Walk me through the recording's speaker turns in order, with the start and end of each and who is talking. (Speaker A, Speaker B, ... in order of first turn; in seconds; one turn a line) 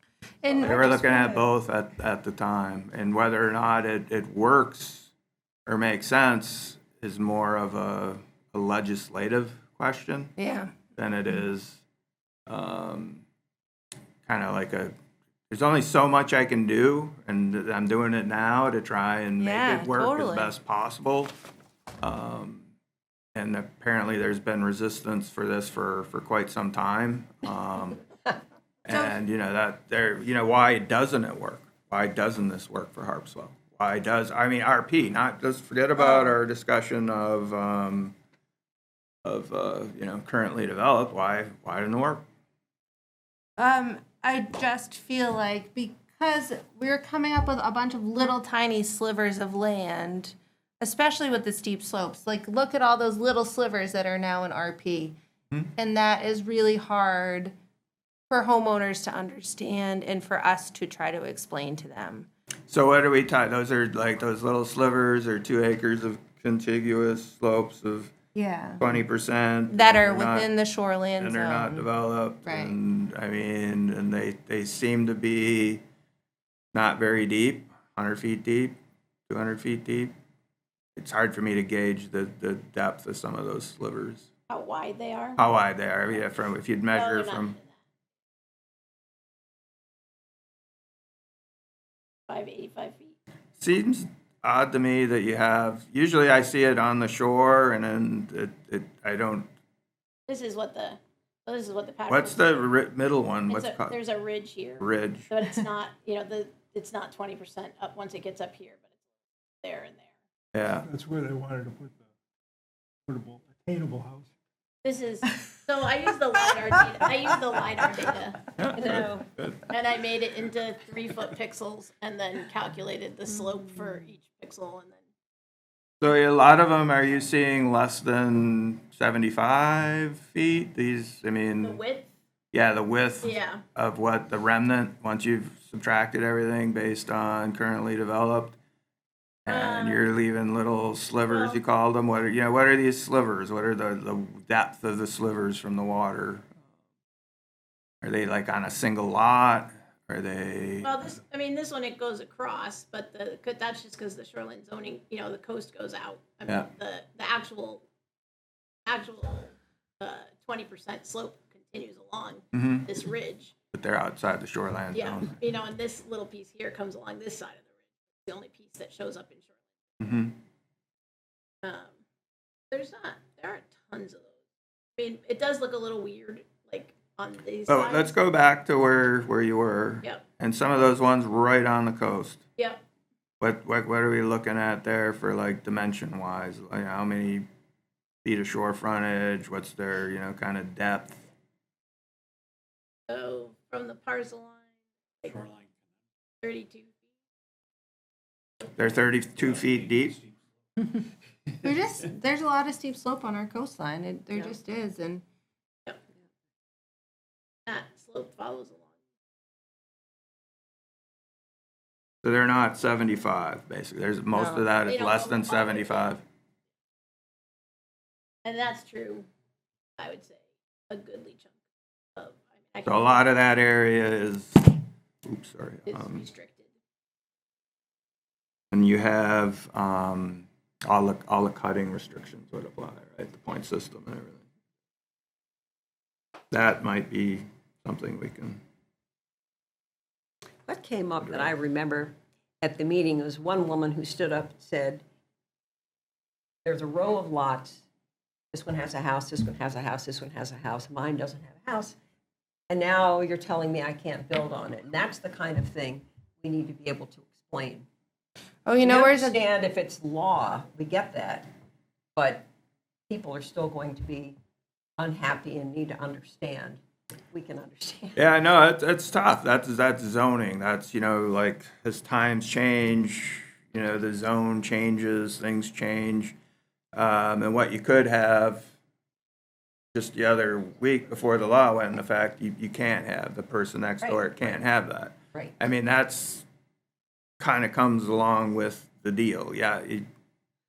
Speaker A: 0.4-1.3
Speaker B: 0.5-5.1
Speaker B: 5.7-10.3
Speaker A: 10.4-10.8
Speaker B: 10.9-11.8
Speaker B: 12.5-13.2
Speaker B: 14.2-14.9
Speaker B: 15.5-21.3
Speaker A: 19.4-20.5
Speaker B: 22.0-22.7
Speaker B: 23.4-28.0
Speaker B: 28.9-38.1
Speaker B: 39.2-42.2
Speaker A: 43.6-55.2
Speaker A: 55.8-57.5
Speaker A: 58.3-62.3
Speaker B: 62.7-68.1
Speaker A: 68.3-68.8
Speaker B: 68.8-70.5
Speaker A: 69.7-71.9
Speaker B: 71.2-75.8
Speaker A: 72.4-72.8
Speaker B: 76.7-78.8
Speaker B: 79.3-80.1
Speaker B: 81.0-84.3
Speaker C: 84.5-85.4
Speaker B: 85.4-87.6
Speaker C: 86.9-87.7
Speaker C: 92.3-93.2
Speaker B: 93.6-99.5
Speaker C: 100.3-102.6
Speaker B: 102.1-104.0
Speaker C: 103.5-108.9
Speaker B: 104.8-105.3
Speaker C: 109.6-110.1
Speaker B: 110.5-110.9
Speaker D: 110.9-112.1
Speaker D: 113.1-114.3
Speaker C: 114.8-118.5
Speaker B: 118.6-119.7
Speaker E: 118.7-119.3
Speaker C: 119.7-125.0
Speaker B: 126.0-131.8
Speaker C: 131.6-132.1
Speaker B: 132.5-138.6
Speaker C: 133.2-133.6
Speaker B: 139.5-146.5
Speaker C: 139.5-140.1
Speaker C: 141.3-141.6
Speaker B: 148.0-151.0
Speaker C: 150.8-157.8
Speaker C: 158.9-163.5
Speaker B: 162.5-162.9
Speaker B: 163.7-165.4
Speaker C: 164.9-167.7
Speaker C: 168.2-169.5
Speaker B: 170.0-170.4
Speaker C: 171.6-171.9
Speaker C: 172.7-174.3
Speaker C: 175.0-178.1
Speaker B: 177.7-182.4
Speaker C: 182.6-182.8
Speaker B: 183.4-187.5
Speaker B: 188.2-191.2
Speaker C: 193.1-194.6
Speaker C: 195.2-195.5
Speaker C: 196.4-196.9
Speaker B: 198.8-200.2
Speaker A: 201.6-205.2
Speaker C: 207.7-208.9
Speaker B: 212.2-216.2
Speaker A: 214.3-214.7
Speaker C: 214.8-216.2
Speaker C: 218.4-219.3
Speaker C: 220.0-221.5
Speaker C: 222.2-223.2
Speaker B: 222.9-224.7
Speaker B: 225.2-226.2
Speaker C: 225.9-226.7
Speaker B: 228.7-234.5
Speaker B: 236.5-238.6
Speaker E: 240.7-245.0
Speaker E: 246.6-247.8
Speaker E: 248.5-252.0
Speaker E: 252.7-257.9
Speaker A: 258.6-259.4
Speaker E: 258.8-261.5
Speaker E: 262.2-262.4
Speaker E: 263.1-264.4
Speaker E: 265.0-268.2
Speaker B: 268.2-276.4
Speaker B: 276.9-278.7
Speaker B: 279.9-286.4
Speaker E: 284.0-284.3
Speaker B: 287.4-290.1